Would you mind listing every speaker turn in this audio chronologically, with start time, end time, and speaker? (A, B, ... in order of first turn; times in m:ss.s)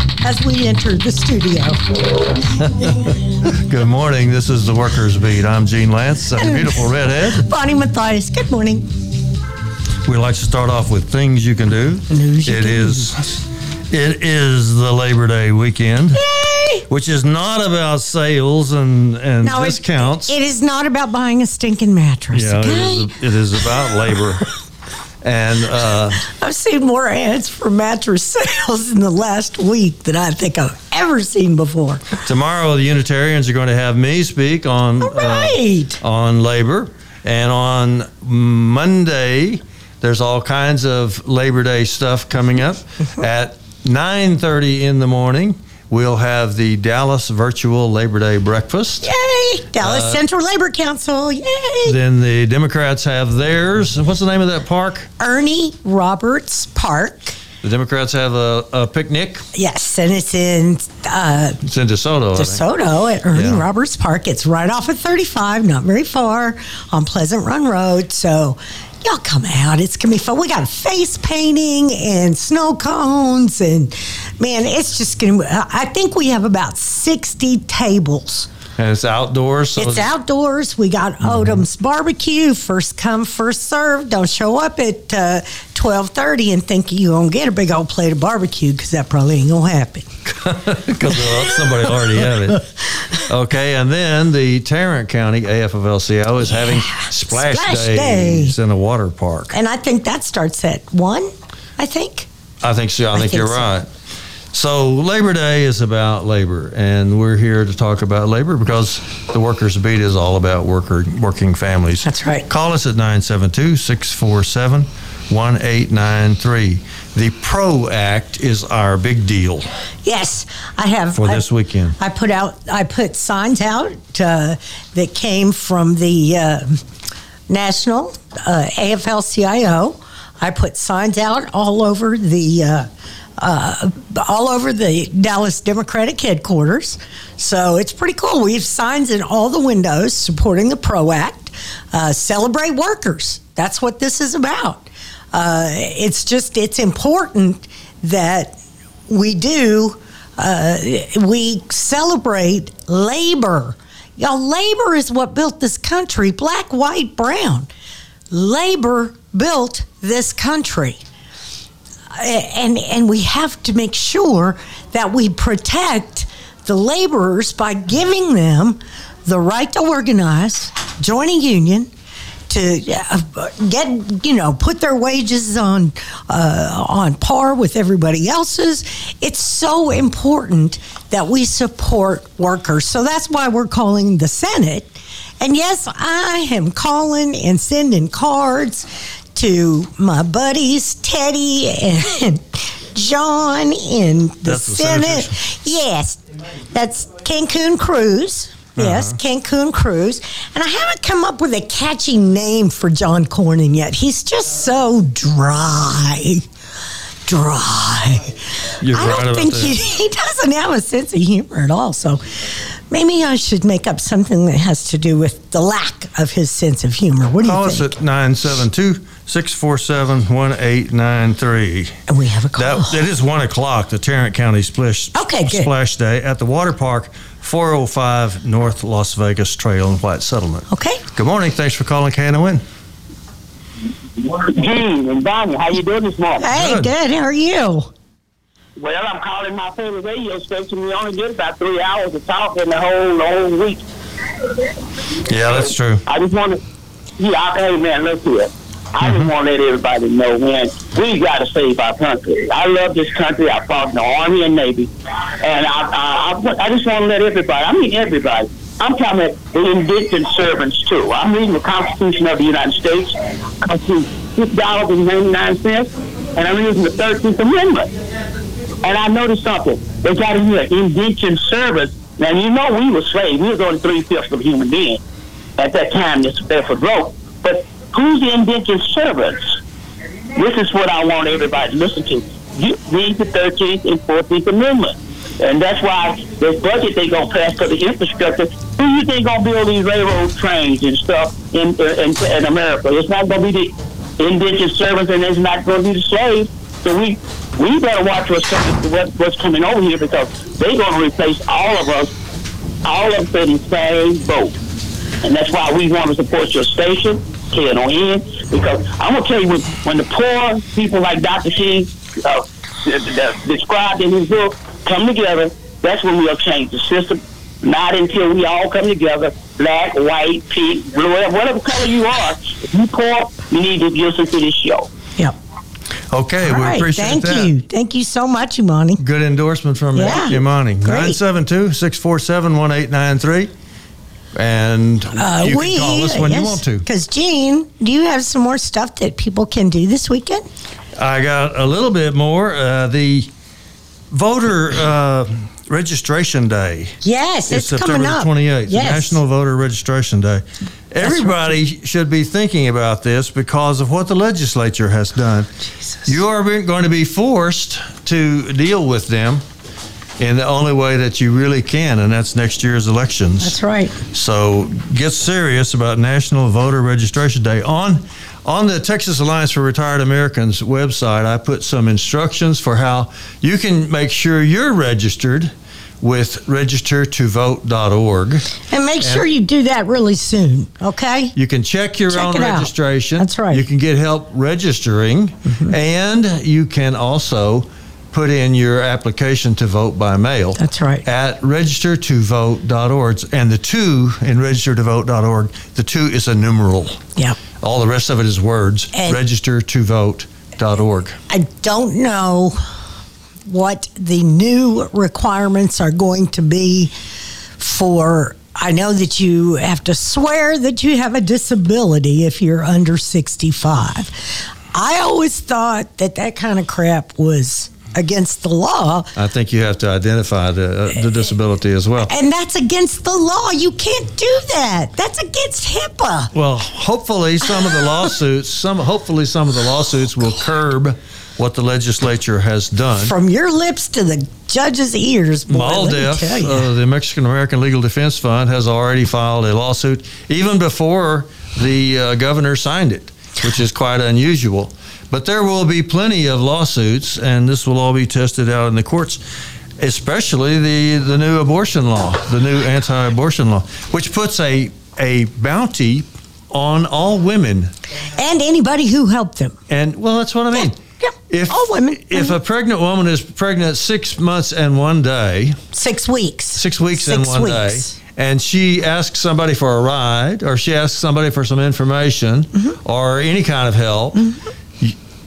0:00.2-0:01.8 A
0:02.6-0:07.4 B
0:06.4-0:08.9 A
0:10.0-0:16.2 B
0:12.1-0:13.1 A
0:16.1-0:16.8 A
0:16.9-0:20.3 B
0:19.4-0:23.2 A
0:22.3-0:24.5 B
0:25.2-0:26.2 B
0:26.3-0:32.2 A
0:32.2-0:49.1 B
0:35.0-0:36.0 A
0:49.0-0:52.0 A
0:49.8-0:50.2 B
0:51.8-0:55.1 B
0:55.2-0:57.4 A
0:57.6-0:59.4 B
0:59.5-1:01.6 A
1:01.6-1:02.6 B
1:02.3-1:18.5 A
1:03.3-1:03.6 B
1:18.8-1:20.1 B
1:19.8-1:30.1 A
1:21.2-1:21.6 B
1:30.2-1:39.6 B
1:31.1-1:32.2 A
1:36.5-1:38.5 A
1:39.5-1:42.3 A
1:42.6-1:43.9 B
1:43.1-1:43.7 A
1:44.5-1:59.7 B
1:52.0-1:52.5 A
2:00.0-2:01.4 A
2:01.1-2:02.0 B
2:02.0-2:06.8 A
2:07.5-2:12.9 A
2:13.4-2:28.6 A
2:29.1-2:37.7 A
2:38.3-2:41.0 A
2:42.1-2:51.9 A
2:52.5-3:16.2 A
3:14.4-3:15.4 B
3:16.7-3:26.4 A
3:18.8-3:19.2 B
3:27.3-3:28.4 A
3:28.8-3:29.8 B
3:28.9-3:32.2 A
3:32.9-3:37.9 A
3:37.4-3:42.0 B
3:42.1-3:43.0 A
3:42.6-3:52.6 B
3:45.1-3:45.7 A
3:50.7-3:51.0 A
3:54.2-3:56.5 C
3:56.4-3:57.9 A
3:56.5-3:56.9 B
3:58.8-4:03.9 C
4:05.3-4:06.0 B
4:06.0-4:06.6 C
4:07.2-4:27.9 C
4:09.0-4:09.3 B
4:28.8-4:35.0 C
4:35.6-4:39.6 C
4:40.3-5:02.1 C
5:02.8-5:04.6 C
5:05.2-5:24.9 C
5:26.1-5:27.5 B
5:26.4-5:29.0 A
5:29.0-5:33.5 B
5:29.9-5:31.2 A
5:34.3-5:36.8 B
5:35.2-5:40.4 A
5:41.0-5:43.3 B
5:44.1-5:47.0 B
5:47.0-5:49.2 A
5:47.5-5:55.5 B
5:51.0-5:51.5 A
5:55.8-5:56.1 A
5:56.0-5:59.4 B
6:00.2-6:03.5 B
6:03.4-6:04.0 A
6:04.1-6:19.3 B
6:18.7-6:21.3 A
6:21.3-6:37.0 B
6:22.1-6:23.6 A
6:25.4-6:25.7 A
6:30.6-6:31.0 A
6:37.6-6:41.2 B
6:41.3-6:42.6 A
6:43.4-6:46.9 A
6:47.6-6:59.1 A
6:59.2-7:02.1 B
7:02.0-7:06.3 A
7:06.3-7:13.1 B
7:13.0-7:16.7 A
7:15.5-7:29.2 B
7:29.8-7:37.7 B
7:38.2-7:39.6 A
7:39.7-7:45.6 B
7:40.5-7:42.4 A
7:45.7-7:47.9 A
7:46.6-7:54.2 B